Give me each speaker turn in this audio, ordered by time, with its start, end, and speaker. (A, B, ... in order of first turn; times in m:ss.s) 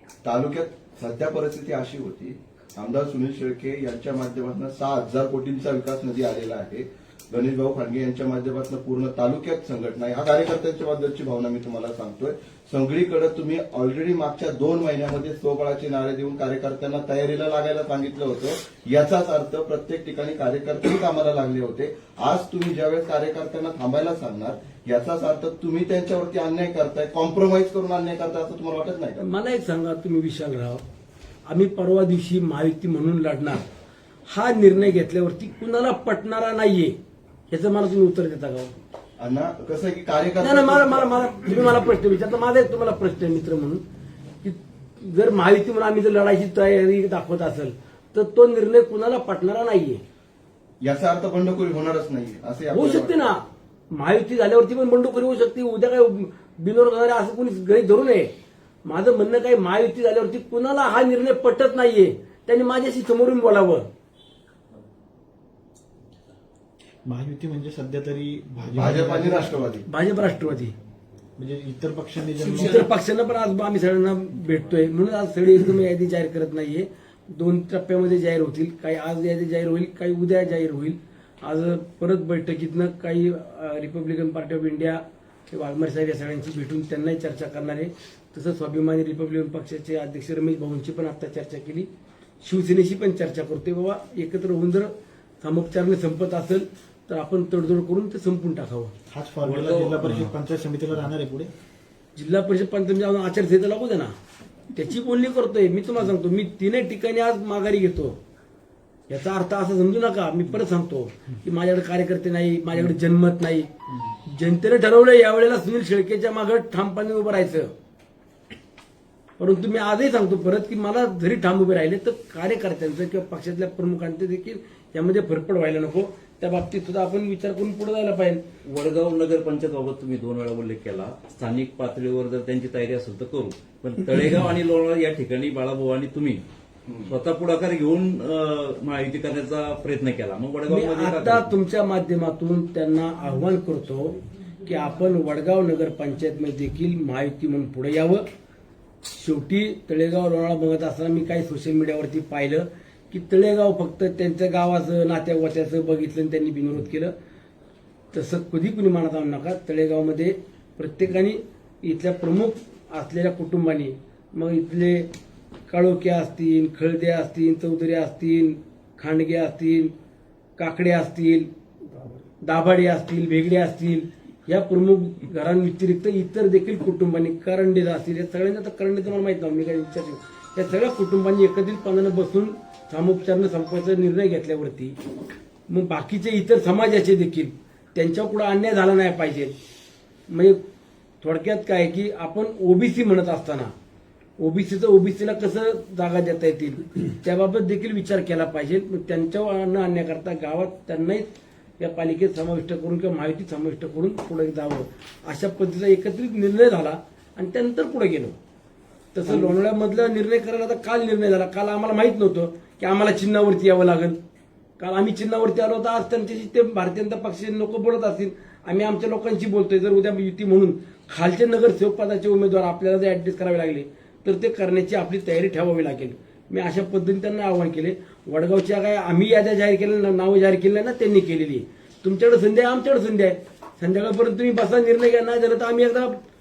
0:00.2-0:29.2 A
0:29.2-0:30.8 B
0:31.5-0:33.6 B
0:34.3-0:36.9 B
0:37.5-0:38.7 B
0:39.2-0:41.1 A
0:40.4-0:43.8 B
0:44.4-0:50.0 B
0:50.8-0:53.3 A
0:52.7-0:53.4 B
0:53.9-0:58.3 B
0:58.9-1:03.8 B
1:07.0-1:09.5 C
1:08.7-1:09.8 A
1:09.9-1:10.7 B
1:11.4-1:12.8 C
1:12.5-1:31.9 B
1:32.4-1:34.9 B
1:35.4-1:38.9 B
1:39.1-1:41.5 C
1:39.4-1:40.3 D
1:42.2-1:44.1 B
1:44.7-1:48.2 B
1:49.1-1:53.7 B
1:54.3-1:57.7 B
1:59.4-2:08.4 B
2:08.6-2:16.4 D
2:16.9-2:17.2 A
2:17.1-2:21.4 D
2:20.7-2:28.2 B
2:29.1-2:37.1 B
2:38.1-2:45.1 B
2:45.7-2:49.9 B
2:50.6-2:51.5 B
2:52.4-3:04.9 B
3:05.7-3:09.5 B
3:10.3-3:10.6 B
3:11.2-3:13.7 B
3:14.4-3:21.2 B
3:21.8-3:28.3 B
3:29.1-3:34.2 B
3:34.8-3:56.2 B